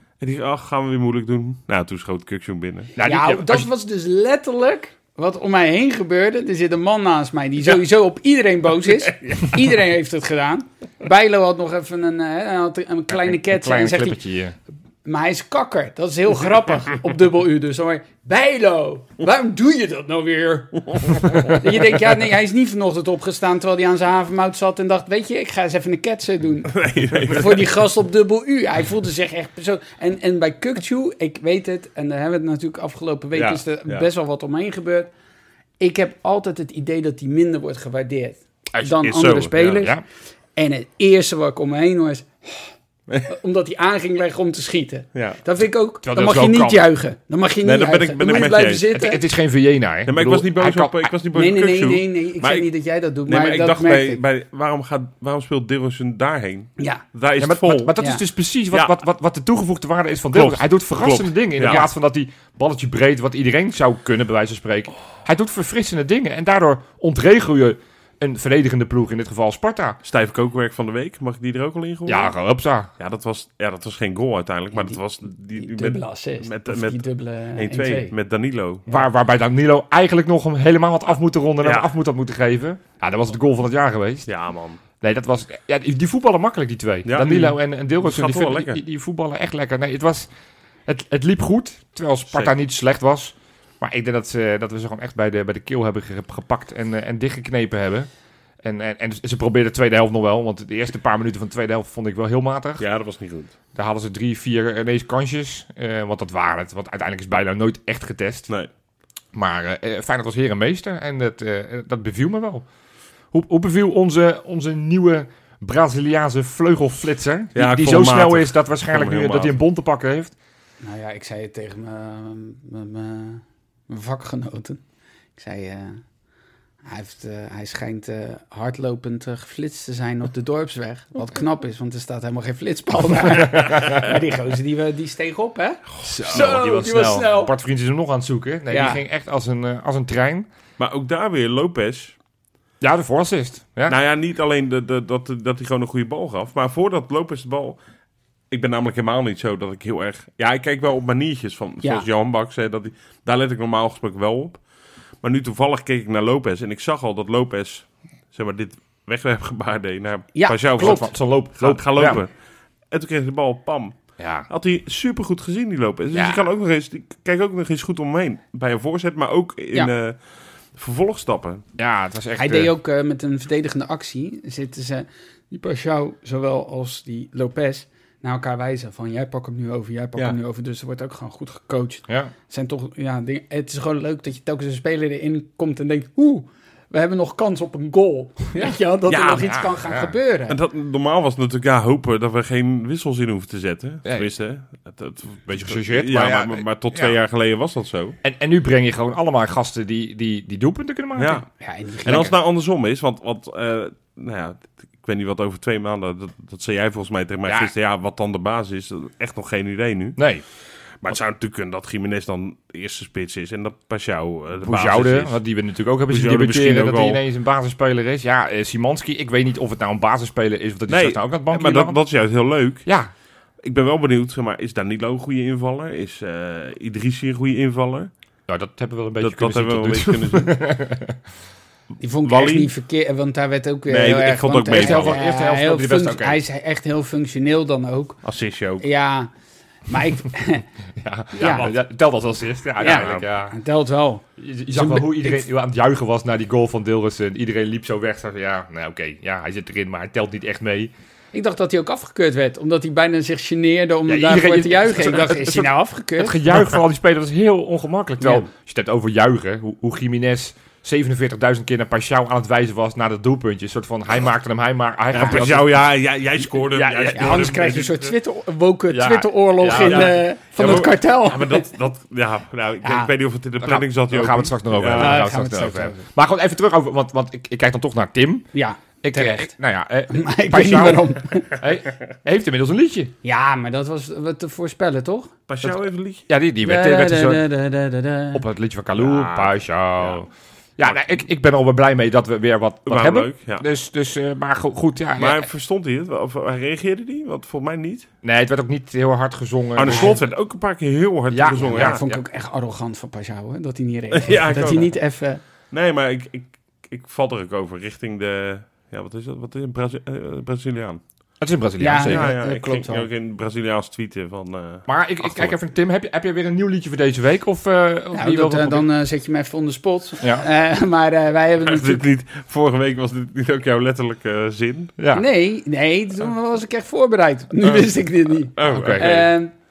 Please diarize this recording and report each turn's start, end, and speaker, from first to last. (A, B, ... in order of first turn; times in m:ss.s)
0:00.2-0:02.9 A
0:03.0-0:03.7 B
0:03.0-0:14.2 C
0:13.1-0:14.5 B
0:15.0-0:35.1 C
0:26.7-0:27.7 A
0:33.3-0:34.1 A
0:35.8-0:39.9 C
0:39.0-0:39.8 A
0:40.6-0:42.7 C
0:43.1-0:43.3 A
0:43.3-0:49.2 C
0:45.1-0:45.4 A
0:46.0-0:46.9 B
0:47.6-0:48.9 A
0:48.9-0:51.1 B
0:50.0-0:52.7 A
0:51.3-0:54.2 C
0:53.3-0:57.9 A
0:56.8-0:57.0 C
0:57.4-1:10.0 B
1:00.3-1:01.9 A
1:10.0-1:12.3 A
1:12.0-1:12.9 B
1:13.0-1:17.0 A
1:14.7-1:15.0 C
1:15.6-1:18.1 C
1:17.6-1:19.0 A
1:18.9-1:24.3 B
1:21.6-1:21.9 A
1:24.3-1:24.8 A
1:25.0-1:30.3 B
1:27.0-1:28.8 A
1:30.9-1:38.1 B
1:38.6-1:42.8 B
1:42.8-1:43.5 A
1:43.7-1:48.5 B
1:49.3-1:52.6 B
1:53.3-2:00.3 B
1:57.5-1:59.6 A
2:00.8-2:04.8 C
2:05.4-2:06.0 C
2:06.8-2:17.5 C
2:16.0-2:16.4 A
2:16.0-2:20.5 B
2:18.7-2:19.0 C
2:20.8-2:22.1 A
2:22.8-2:24.0 B
2:23.9-2:27.8 A
2:28.5-2:34.6 A
2:35.2-2:42.3 A
2:40.3-2:41.1 C
2:40.8-2:42.2 B
2:42.9-2:50.2 A
2:44.2-2:44.5 B
2:46.1-2:46.4 B
2:50.7-2:51.6 A
2:51.8-2:52.7 B
2:52.4-3:10.6 C
3:09.1-3:09.5 A
3:09.4-3:10.1 B
3:10.5-3:18.2 A
3:15.5-3:17.1 B
3:18.2-3:21.4 B
3:21.2-3:21.4 A
3:21.6-3:22.3 C
3:22.0-3:30.2 A
3:22.0-3:22.3 B
3:27.4-3:27.7 B
3:30.2-3:30.4 B
3:31.0-3:35.4 A
3:34.6-3:42.0 B
3:36.1-3:37.2 A
3:40.9-3:42.9 A
3:42.8-3:43.1 B
3:43.6-3:48.1 A
3:48.5-3:51.2 B
3:49.2-3:50.6 A
3:52.0-3:58.2 C
3:52.2-3:52.7 A
3:53.9-3:55.2 A
3:54.7-3:56.4 B
3:58.2-3:58.8 A
3:58.8-3:59.3 C
3:59.9-4:00.7 C
4:01.0-4:03.5 B
4:01.4-4:01.7 C
4:01.4-4:01.7 A
4:02.8-4:05.4 C
4:02.9-4:03.2 A
4:04.4-4:10.9 B
4:11.3-4:16.4 C
4:14.1-4:25.8 B
4:18.2-4:18.5 C
4:25.1-4:28.1 A
4:26.7-4:27.6 B
4:27.1-4:31.7 C
4:28.9-4:30.1 B
4:29.8-4:35.2 A
4:32.8-4:33.1 C
4:33.6-4:38.5 B
4:34.9-4:36.0 C
4:38.5-4:39.5 C
4:39.0-4:43.1 B
4:40.1-4:41.5 C
4:43.2-4:45.3 C
4:45.5-4:46.2 A
4:46.3-4:47.4 B
4:46.6-4:48.4 C
4:48.3-4:55.5 B
4:49.0-4:50.2 A
4:52.9-4:53.6 A
4:55.2-4:58.1 A
4:58.2-5:00.2 B
4:59.8-5:02.0 A
4:59.8-5:00.2 C
5:01.3-5:02.2 B
5:01.5-5:05.4 C
5:04.1-5:04.9 A
5:05.7-5:11.0 A
5:11.4-5:12.3 B
5:11.8-5:13.1 C
5:12.0-5:15.5 A
5:14.9-5:18.9 B
5:18.1-5:22.0 C
5:20.2-5:20.4 B
5:21.6-5:24.9 A
5:25.0-5:25.2 B
5:25.1-5:29.5 C
5:28.5-5:29.2 A
5:28.6-5:29.2 B